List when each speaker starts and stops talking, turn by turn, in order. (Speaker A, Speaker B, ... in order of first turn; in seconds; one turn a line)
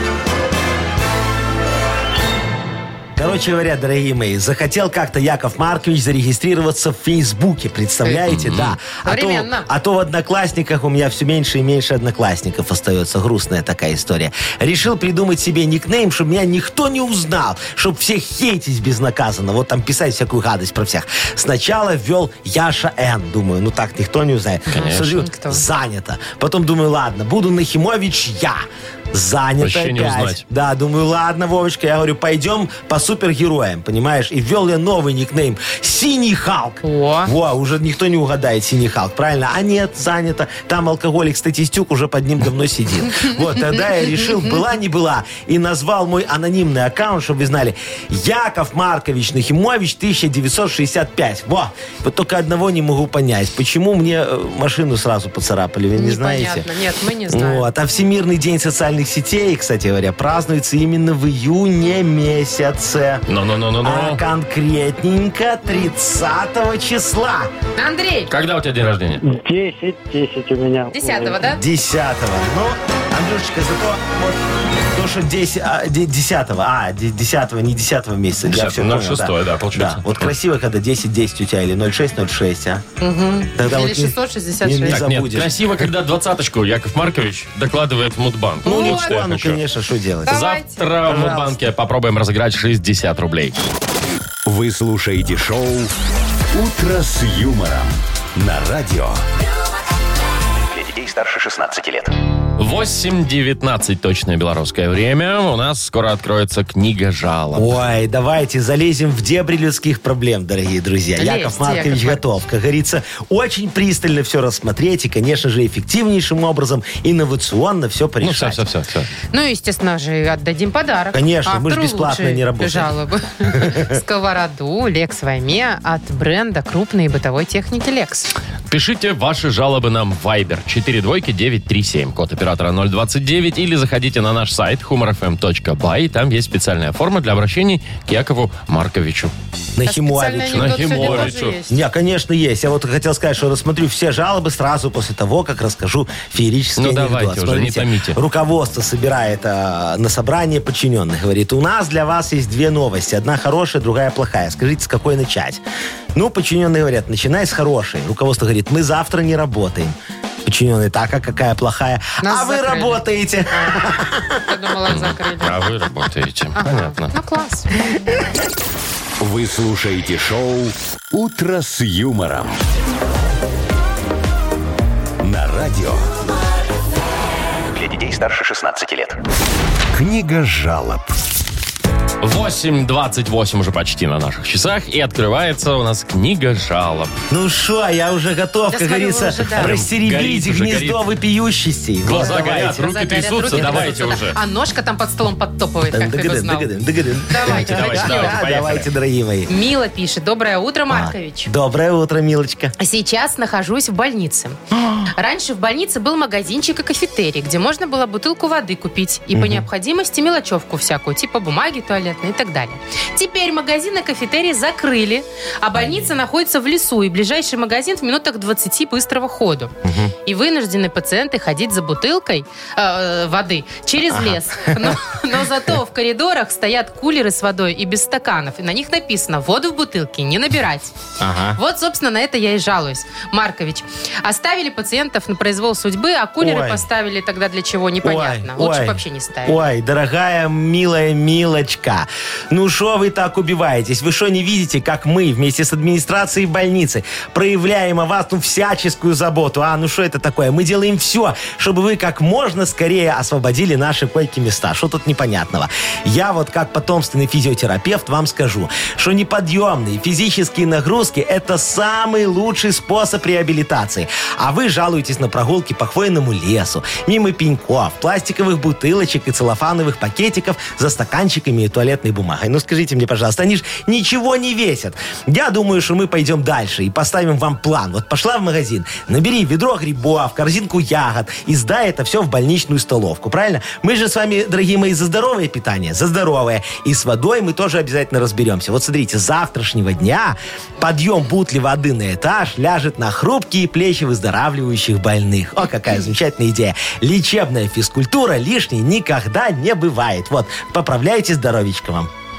Speaker A: 3.1-56.7
Speaker B: 8.3-8.8
Speaker C: 9.1-9.7
Speaker C: 24.7-25.6
Speaker B: 24.7-25.2
Speaker B: 29.6-30.4
Speaker C: 36.8-37.3
Speaker C: 56.0-57.7
Speaker A: 57.3-63.2
Speaker B: 63.3-64.2
Speaker A: 63.8-67.5
Speaker C: 67.8-68.3
Speaker B: 68.3-69.2
Speaker D: 69.2-71.5
Speaker C: 70.9-71.6
Speaker A: 71.4-74.4
Speaker A: 74.9-82.8
Speaker B: 78.5-80.3
Speaker C: 83.0-85.0
Speaker A: 83.5-85.5
Speaker B: 84.9-89.6
Speaker A: 88.6-90.4
Speaker C: 88.6-89.2
Speaker C: 90.3-90.8
Speaker B: 90.3-93.6
Speaker A: 91.0-91.6
Speaker E: 94.4-95.9
Speaker E: 96.5-99.2
Speaker F: 100.7-102.1
Speaker B: 102.6-107.7
Speaker A: 107.5-118.6
Speaker C: 111.2-112.2
Speaker B: 118.2-119.1
Speaker C: 119.3-128.3
Speaker A: 121.1-124.0
Speaker B: 128.7-139.3
Speaker A: 139.8-155.6
Speaker C: 139.8-141.8
Speaker B: 140.5-141.6
Speaker B: 146.8-148.2
Speaker A: 156.1-164.4
Speaker C: 162.2-163.8
Speaker C: 164.4-165.6
Speaker B: 164.9-167.1
Speaker C: 166.6-167.7
Speaker E: 169.2-172.6
Speaker E: 175.2-176.1
Speaker F: 177.7-179.2
Speaker E: 179.9-181.1
Speaker B: 182.2-187.1
Speaker A: 187.3-192.8
Speaker C: 188.7-189.8
Speaker B: 189.6-191.0
Speaker B: 192.1-194.4
Speaker C: 192.1-196.7
Speaker A: 193.5-193.9
Speaker A: 195.9-199.5
Speaker C: 197.3-198.4
Speaker B: 197.4-198.9
Speaker C: 199.5-201.5
Speaker A: 200.9-202.7
Speaker C: 202.8-204.6
Speaker A: 204.8-205.1
Speaker C: 205.1-219.7
Speaker A: 209.3-209.7
Speaker A: 219.8-220.1
Speaker C: 220.3-230.9
Speaker A: 224.1-225.0
Speaker A: 231.2-231.6
Speaker C: 231.6-239.6
Speaker A: 236.4-236.8
Speaker A: 238.0-302.1